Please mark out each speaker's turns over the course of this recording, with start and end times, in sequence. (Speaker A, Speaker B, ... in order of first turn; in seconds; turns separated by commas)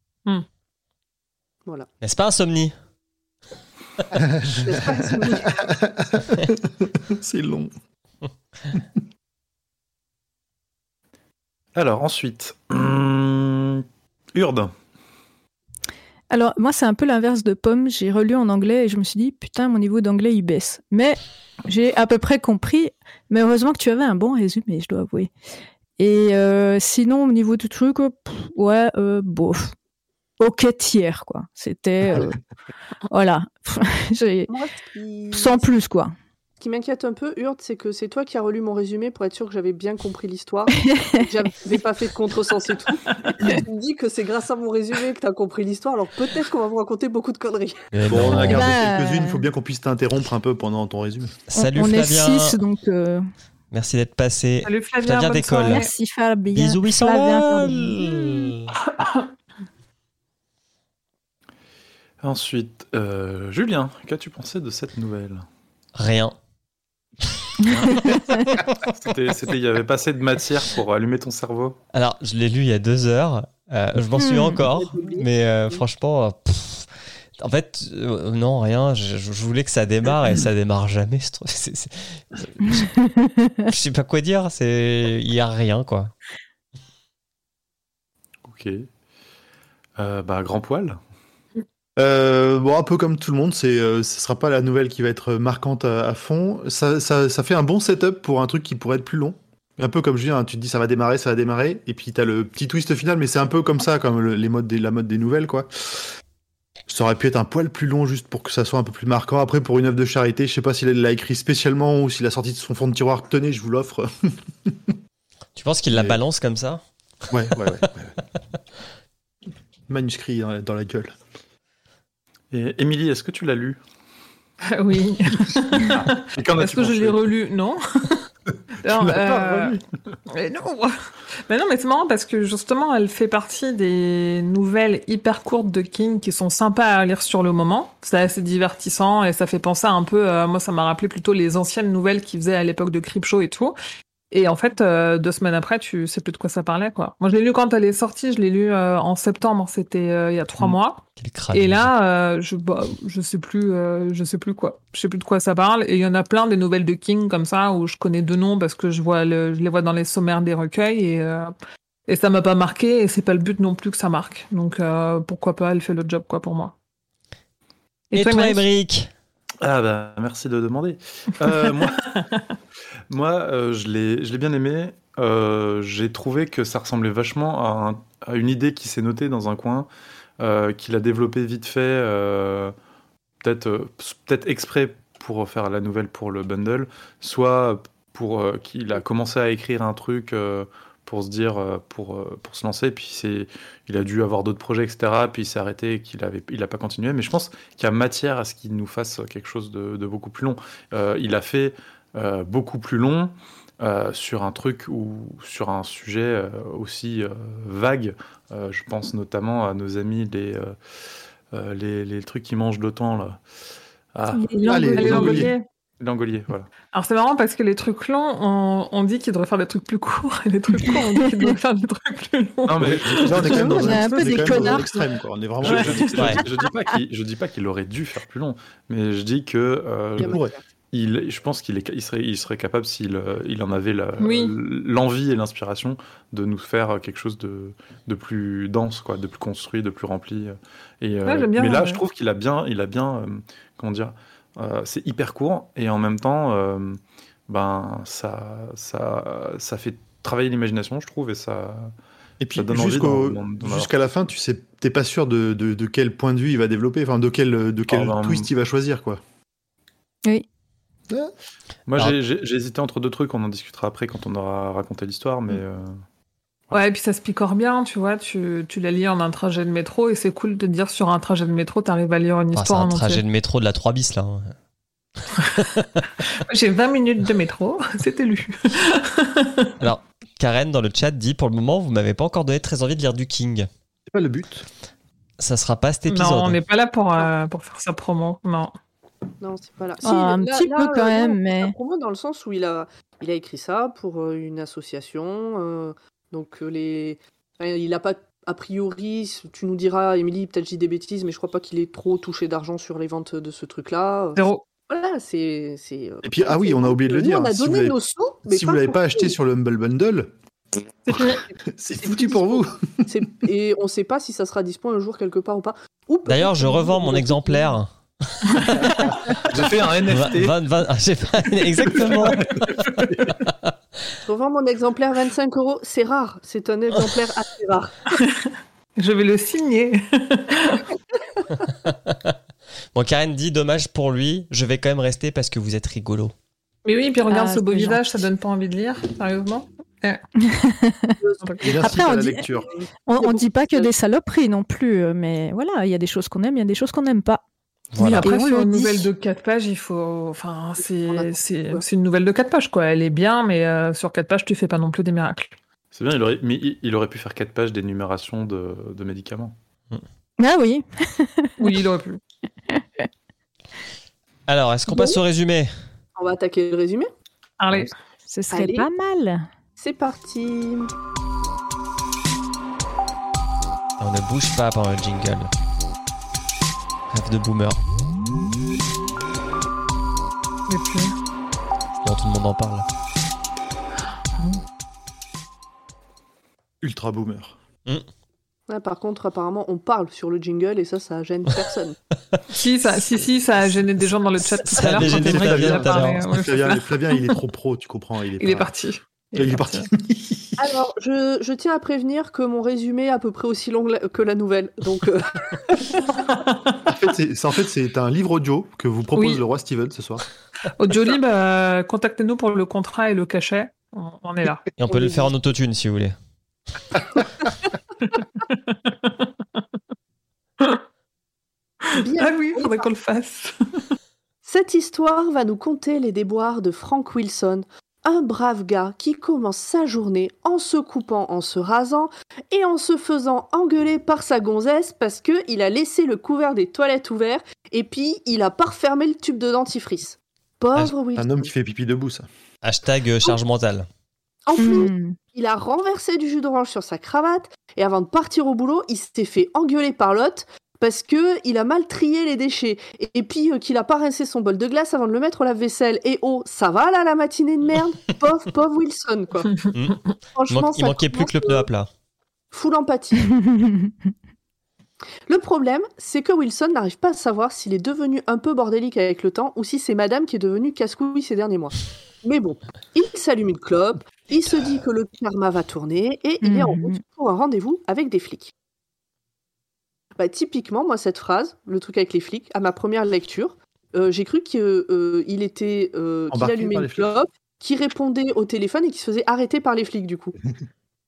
Speaker A: 2.0-2.7, Speaker B: 4.2-7.7, Speaker C: 4.6-5.6, Speaker D: 11.8-14.7, Speaker E: 16.3-25.3, Speaker E: 26.0-29.7, Speaker E: 30.4-32.4, Speaker E: 33.1-34.5, Speaker C: 34.5-35.7, Speaker E: 35.3-36.1, Speaker C: 36.6-47.9, Speaker E: 40.8-41.3, Speaker A: 47.9-48.8, Speaker B: 48.0-51.4, Speaker E: 48.3-49.5, Speaker A: 51.5-52.6, Speaker E: 51.5-53.3, Speaker A: 53.7-55.9, Speaker F: 54.6-55.9, Speaker E: 55.6-58.3, Speaker A: 56.5-58.7, Speaker F: 58.9-59.3, Speaker D: 62.2-65.5, Speaker A: 66.0-66.4, Speaker D: 67.7-71.8, Speaker A: 67.7-68.8, Speaker E: 68.2-68.4, Speaker A: 71.9-82.9, Speaker E: 74.2-74.6, Speaker C: 74.6-75.8, Speaker E: 82.7-83.5, Speaker A: 83.7-86.1, Speaker D: 88.5-88.9, Speaker D: 90.0-91.0, Speaker B: 92.0-106.1, Speaker B: 106.9-115.0, Speaker A: 115.6-116.8, Speaker B: 115.9-116.2, Speaker B: 117.3-118.1, Speaker B: 119.9-121.2, Speaker D: 122.5-123.8, Speaker F: 124.6-128.3, Speaker B: 125.8-127.2, Speaker F: 128.8-129.8, Speaker B: 128.8-129.8, Speaker F: 130.3-130.9, Speaker F: 131.5-143.8, Speaker F: 144.3-161.5, Speaker A: 150.6-151.9, Speaker F: 162.1-166.7, Speaker F: 168.1-168.7, Speaker A: 168.1-169.1, Speaker D: 169.6-172.1, Speaker F: 172.2-172.4, Speaker D: 173.1-179.9, Speaker D: 180.4-182.7, Speaker D: 183.4-210.8, Speaker D: 211.5-213.4, Speaker D: 214.2-216.7, Speaker E: 214.3-215.0, Speaker F: 214.6-215.7, Speaker B: 214.7-215.5, Speaker F: 216.9-224.9, Speaker D: 222.7-223.9, Speaker B: 222.8-226.4, Speaker E: 223.5-225.0, Speaker D: 225.6-230.4, Speaker F: 225.7-226.3, Speaker A: 226.2-226.4, Speaker B: 230.2-230.5, Speaker C: 230.2-230.6, Speaker D: 230.9-251.9, Speaker F: 234.2-234.6, Speaker F: 241.3-242.0, Speaker B: 252.4-259.2, Speaker D: 252.6-253.9, Speaker D: 257.9-258.5, Speaker D: 261.9-266.0, Speaker F: 266.7-273.2, Speaker A: 272.5-274.5, Speaker A: 275.4-275.9, Speaker F: 276.2-279.7, Speaker A: 279.8-283.7, Speaker B: 284.1-284.7, Speaker A: 285.4-286.6, Speaker F: 286.1-288.7, Speaker C: 289.4-309.3, Speaker E: 290.0-291.7, Speaker F: 304.4-304.6, Speaker B: 306.2-310.3, Speaker F: 311.1-311.4, Speaker B: 311.1-313.1, Speaker C: 312.0-317.8, Speaker A: 316.3-319.1, Speaker B: 318.9-319.7, Speaker D: 319.4-320.6, Speaker A: 320.1-323.7, Speaker D: 322.0-322.6, Speaker C: 324.2-328.1, Speaker F: 328.2-330.9, Speaker A: 331.6-332.3, Speaker A: 332.9-336.3, Speaker F: 336.9-340.2, Speaker E: 337.3-338.0, Speaker E: 340.4-341.1, Speaker C: 341.2-343.9, Speaker F: 341.4-341.8, Speaker B: 341.6-342.7, Speaker E: 341.8-342.5, Speaker E: 343.1-347.4, Speaker A: 347.9-348.3, Speaker F: 348.0-355.6, Speaker E: 348.1-349.1, Speaker C: 350.8-351.9, Speaker D: 355.9-359.6, Speaker E: 360.4-361.8, Speaker F: 361.6-362.2, Speaker A: 364.5-365.7, Speaker C: 366.2-367.1, Speaker F: 367.6-367.9, Speaker E: 368.3-369.5, Speaker C: 368.5-368.9, Speaker C: 369.8-370.9, Speaker A: 374.0-375.5, Speaker A: 377.1-377.8, Speaker F: 380.7-381.1, Speaker A: 382.0-382.9, Speaker B: 386.8-387.6, Speaker C: 388.7-392.0, Speaker F: 392.6-397.4, Speaker A: 394.5-396.3, Speaker B: 394.9-398.7, Speaker F: 398.4-399.9, Speaker B: 399.4-400.6, Speaker C: 400.6-406.1, Speaker F: 406.1-406.8, Speaker B: 406.9-410.2, Speaker F: 409.1-409.4, Speaker F: 410.8-414.7, Speaker A: 414.8-416.2, Speaker C: 414.9-415.3, Speaker F: 418.1-419.6, Speaker F: 421.9-423.9, Speaker C: 421.9-422.9, Speaker C: 424.4-441.5, Speaker B: 441.2-442.3, Speaker A: 442.6-443.9, Speaker C: 444.5-459.5, Speaker E: 444.6-445.2, Speaker C: 460.3-461.7, Speaker A: 460.5-461.9, Speaker C: 462.5-463.3, Speaker E: 463.4-463.9, Speaker C: 465.3-478.5, Speaker E: 476.4-477.0, Speaker C: 480.2-490.4, Speaker B: 486.3-487.1